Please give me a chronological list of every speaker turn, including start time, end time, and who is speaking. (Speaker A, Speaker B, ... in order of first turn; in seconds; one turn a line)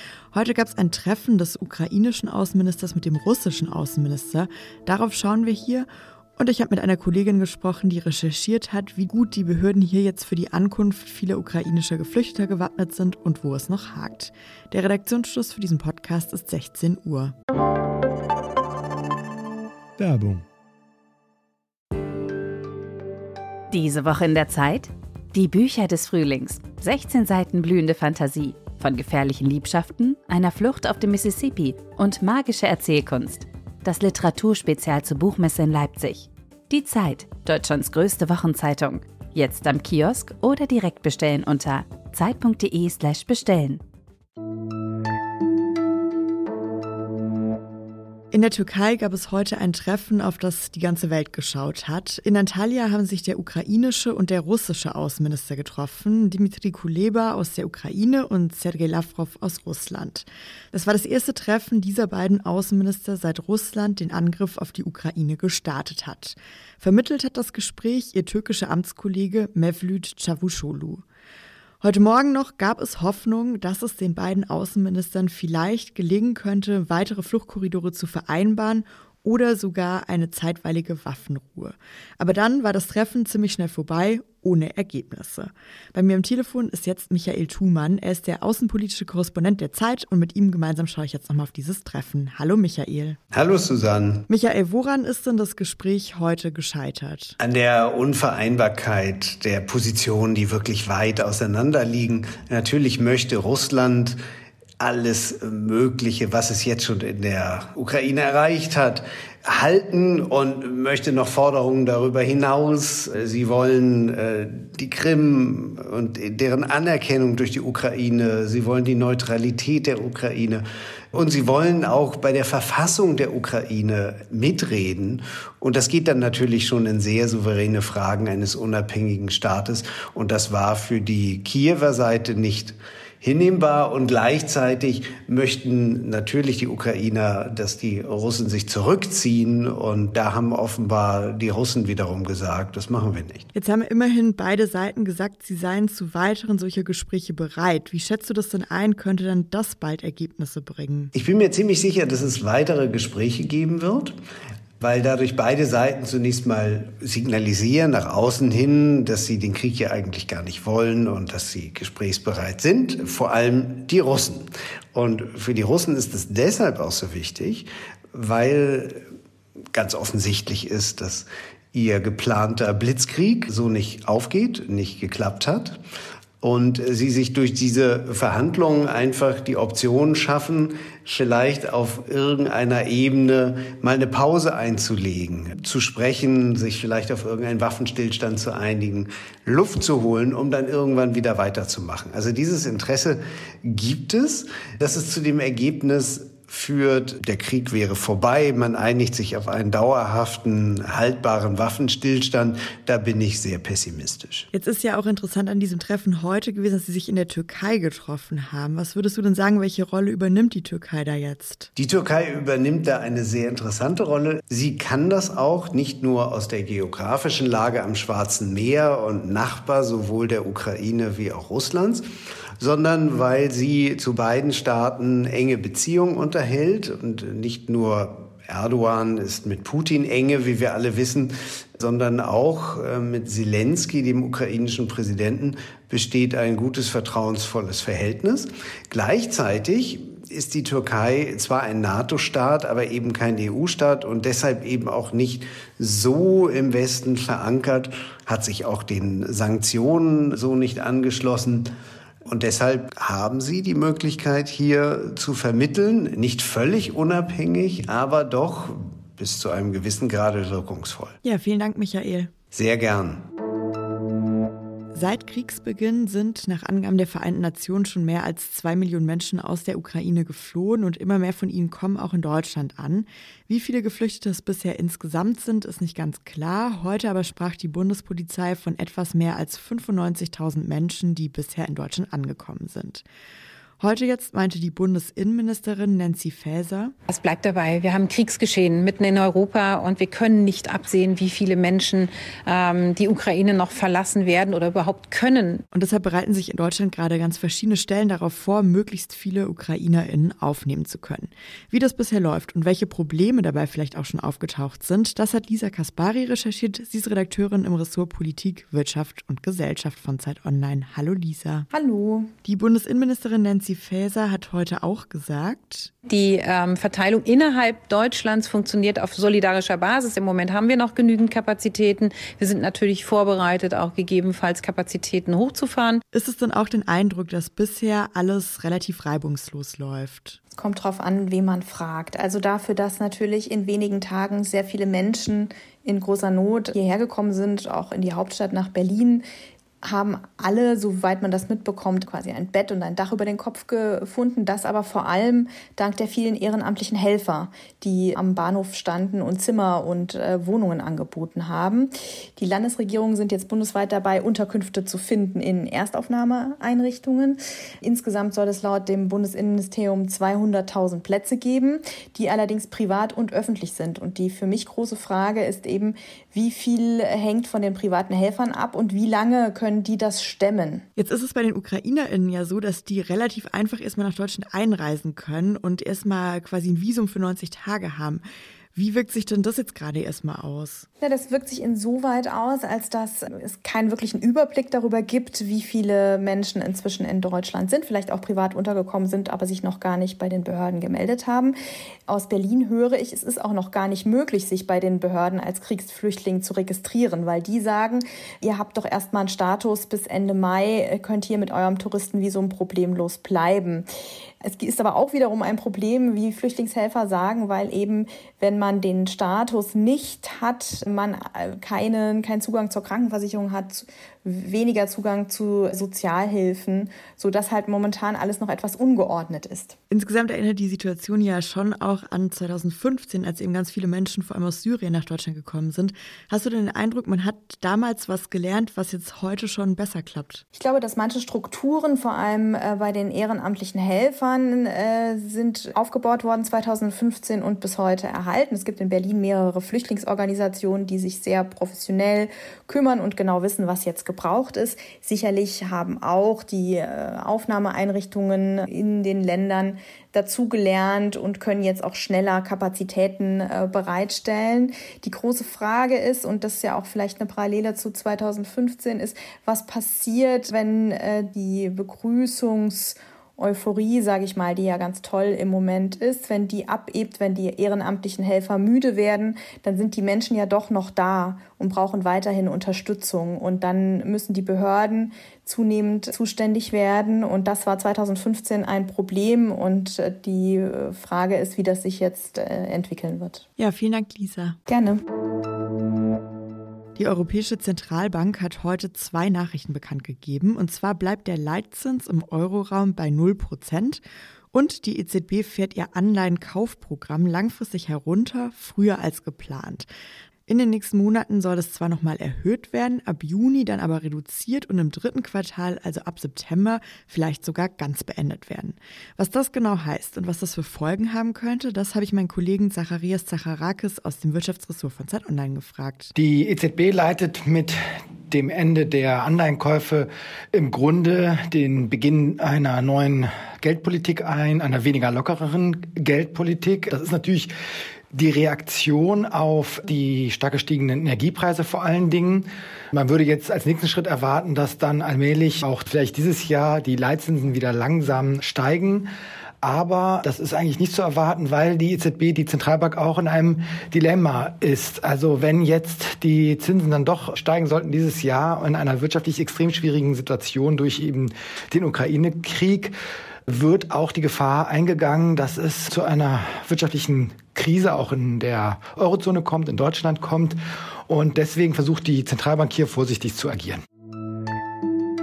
Speaker A: 0.3-17.3
Speaker B: 23.7-43.8
Speaker A: 48.3-71.0
Speaker A: 71.8-93.2
Speaker C: 93.3-94.3
Speaker A: 94.3-97.4
Speaker C: 97.4-104.2
Speaker C: 104.8-120.6
Speaker C: 121.1-143.5
Speaker A: 143.6-151.1
Speaker C: 151.1-154.2
Speaker C: 154.8-169.0
Speaker C: 169.7-175.8
Speaker C: 176.4-204.5
Speaker A: 204.5-211.7
Speaker C: 211.8-222.0
Speaker C: 222.6-251.7
Speaker C: 252.3-261.2
Speaker A: 261.2-262.4
Speaker C: 262.5-263.2
Speaker A: 264.9-283.0
Speaker A: 283.8-286.9
Speaker D: 287.1-295.6
Speaker A: 295.7-311.7
Speaker E: 311.7-312.3
Speaker A: 312.4-315.9
Speaker D: 316.1-326.0
Speaker A: 326.1-330.4
Speaker E: 330.6-339.2
Speaker E: 339.8-370.9
Speaker A: 371.0-378.2
Speaker A: 378.8-380.9
Speaker E: 381.0-391.6
Speaker E: 392.1-403.9
Speaker E: 404.4-419.8
Speaker A: 419.9-430.4
Speaker E: 430.5-483.4
Speaker A: 483.6-484.6
Speaker E: 484.7-485.0
Speaker A: 486.9-494.0
Speaker A: 494.5-499.9
Speaker A: 500.5-516.1
Speaker F: 516.2-517.8
Speaker F: 518.3-527.5
Speaker F: 528.1-539.1
Speaker F: 539.6-552.9
Speaker F: 553.5-560.6
Speaker F: 561.1-563.8